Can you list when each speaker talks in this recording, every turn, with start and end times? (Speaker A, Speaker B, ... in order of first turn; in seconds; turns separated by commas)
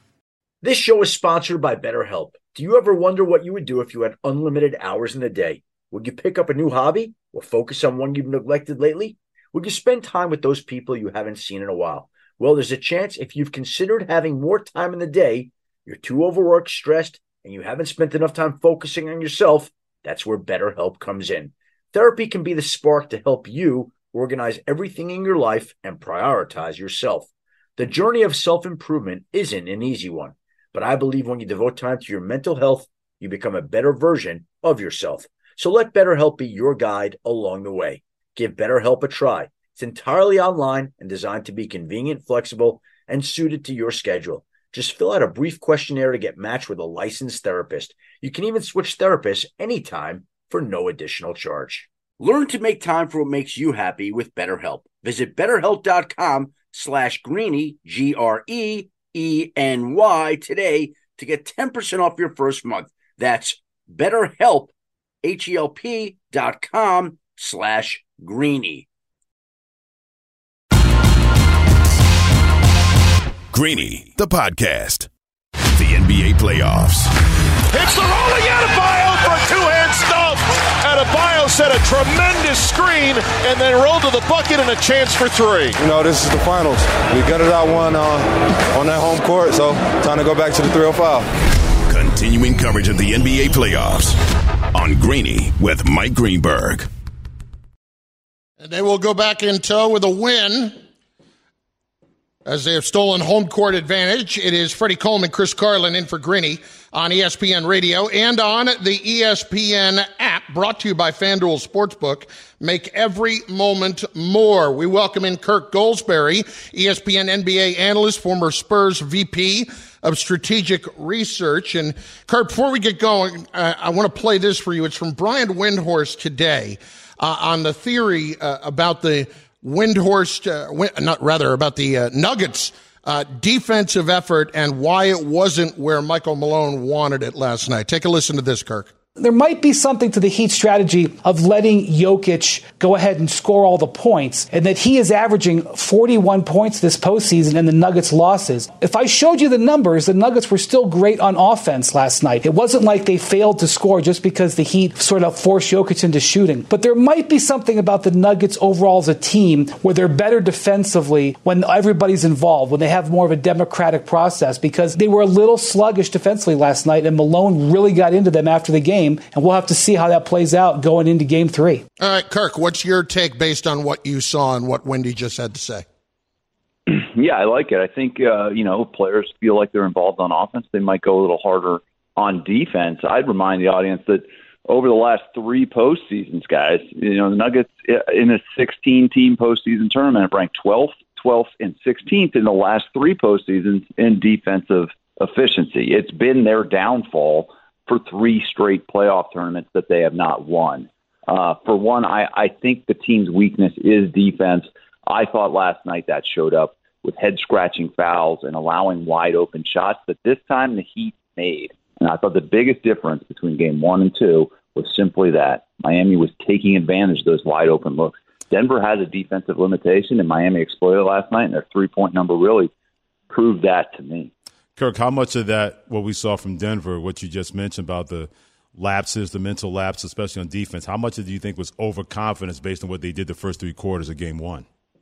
Speaker A: 0.6-64.7, Speaker A: 65.2-68.8, Speaker B: 73.5-75.1, Speaker B: 75.7-77.1, Speaker C: 77.7-85.8, Speaker D: 85.8-91.2, Speaker B: 91.8-94.2, Speaker B: 94.7-96.9, Speaker E: 98.6-100.7, Speaker E: 102.4-138.9, Speaker F: 139.2-171.8, Speaker E: 172.0-175.8, Speaker G: 176.9-222.7, Speaker G: 223.3-224.3, Speaker H: 224.8-234.6